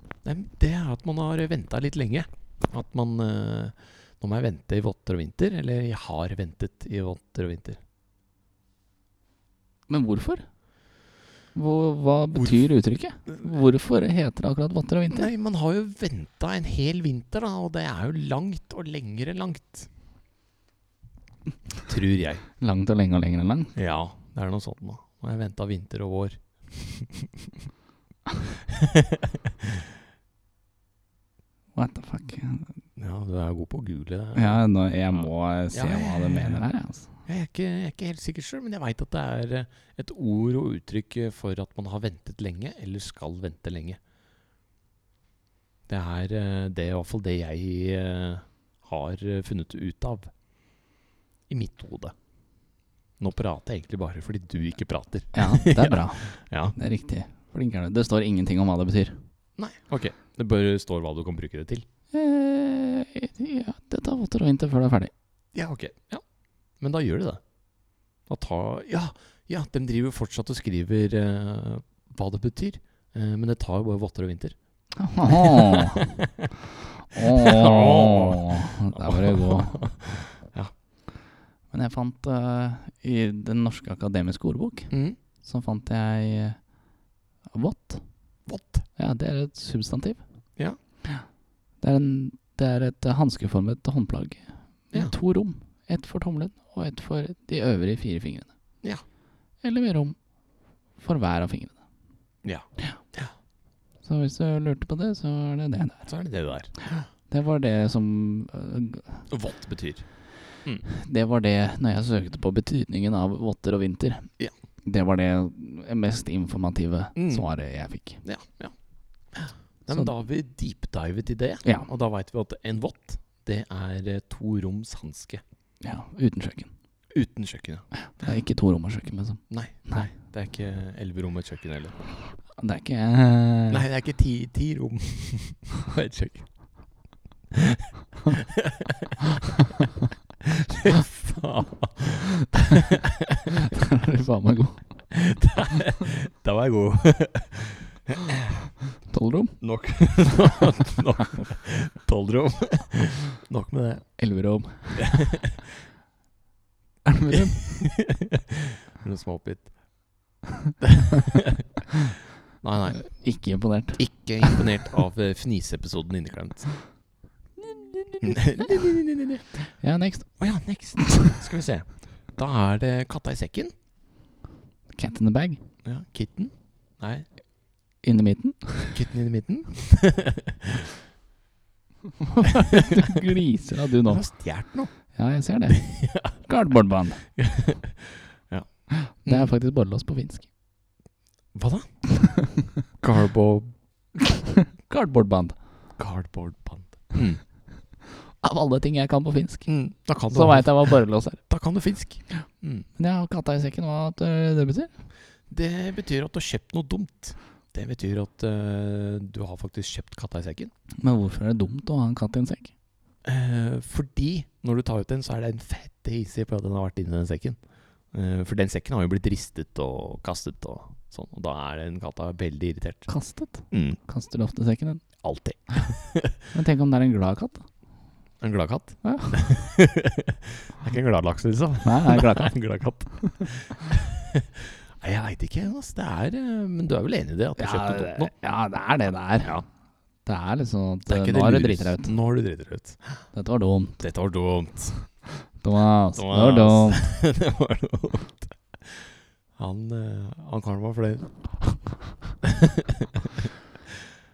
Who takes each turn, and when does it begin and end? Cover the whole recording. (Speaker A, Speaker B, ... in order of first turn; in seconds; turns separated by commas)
Speaker A: 0.2-7.8, Speaker B: 9.9-10.5, Speaker B: 11.5-15.3, Speaker A: 12.3-12.6, Speaker A: 15.1-19.9, Speaker A: 21.9-22.4, Speaker B: 22.6-23.7, Speaker A: 23.7-27.5, Speaker A: 28.7-29.8, Speaker B: 31.7-32.7, Speaker A: 33.0-36.7, Speaker B: 34.3-37.1, Speaker A: 37.2-44.0, Speaker A: 45.9-50.3, Speaker A: 51.5-52.1, Speaker A: 53.2-56.7, Speaker B: 55.3-59.2, Speaker A: 59.6-61.9, Speaker B: 62.1-65.1, Speaker A: 65.5-66.2, Speaker A: 66.8-67.4, Speaker A: 68.3-74.5, Speaker B: 75.0-76.0, Speaker A: 75.2-76.5, Speaker B: 77.1-79.8, Speaker A: 77.2-80.7, Speaker B: 81.7-86.7, Speaker A: 84.9-85.2, Speaker B: 87.5-88.0, Speaker A: 88.5-88.8, Speaker B: 89.0-90.2, Speaker B: 91.8-98.5, Speaker B: 99.6-100.2, Speaker B: 101.0-101.8, Speaker A: 102.4-103.3, Speaker B: 104.0-106.1, Speaker A: 106.1-107.1, Speaker B: 107.3-109.3, Speaker A: 109.3-110.1, Speaker B: 110.8-114.3, Speaker B: 114.8-118.2, Speaker A: 117.2-117.5, Speaker A: 118.2-118.7, Speaker A: 119.3-125.4, Speaker B: 125.8-126.7, Speaker A: 127.1-127.8, Speaker B: 128.0-130.1, Speaker A: 129.5-131.9, Speaker B: 132.6-133.8, Speaker A: 133.7-136.8, Speaker A: 137.5-139.2, Speaker A: 140.4-143.5, Speaker B: 143.6-145.1, Speaker A: 145.1-148.7, Speaker B: 149.1-149.6, Speaker A: 149.6-154.1, Speaker B: 154.2-155.4, Speaker A: 154.9-155.6, Speaker B: 157.1-157.9, Speaker A: 157.3-159.7, Speaker A: 160.8-161.7, Speaker A: 162.6-163.2, Speaker B: 163.0-164.6, Speaker A: 163.9-166.8, Speaker B: 167.6-168.7, Speaker A: 168.2-169.5, Speaker B: 169.8-170.4, Speaker A: 170.4-173.7, Speaker B: 171.0-171.4, Speaker B: 174.9-175.6, Speaker A: 175.8-177.3, Speaker B: 178.0-179.0, Speaker A: 178.9-180.9, Speaker B: 182.2-184.3, Speaker A: 182.7-183.2, Speaker A: 184.0-184.9, Speaker B: 185.1-187.3, Speaker A: 185.7-186.4, Speaker A: 187.3-188.7, Speaker B: 188.9-190.5, Speaker A: 189.2-189.5, Speaker A: 191.5-191.9, Speaker B: 192.2-192.5, Speaker A: 193.0-193.7, Speaker B: 194.3-195.6, Speaker A: 196.0-197.4, Speaker B: 198.4-199.8, Speaker A: 199.7-202.9, Speaker B: 200.3-201.4, Speaker B: 203.0-204.9, Speaker A: 205.5-210.7, Speaker B: 211.0-212.7, Speaker A: 213.2-217.6, Speaker A: 218.1-223.2, Speaker B: 223.1-225.9, Speaker A: 223.7-224.0, Speaker A: 225.2-226.4, Speaker B: 226.5-227.7, Speaker A: 228.4-238.3, Speaker B: 229.0-229.5, Speaker B: 231.8-232.6, Speaker B: 233.2-233.4, Speaker B: 237.6-239.6, Speaker B: 240.2-242.1, Speaker A: 241.1-243.2, Speaker B: 243.3-244.0, Speaker A: 244.0-245.0, Speaker B: 245.6-247.1, Speaker A: 246.1-251.5, Speaker A: 252.4-253.5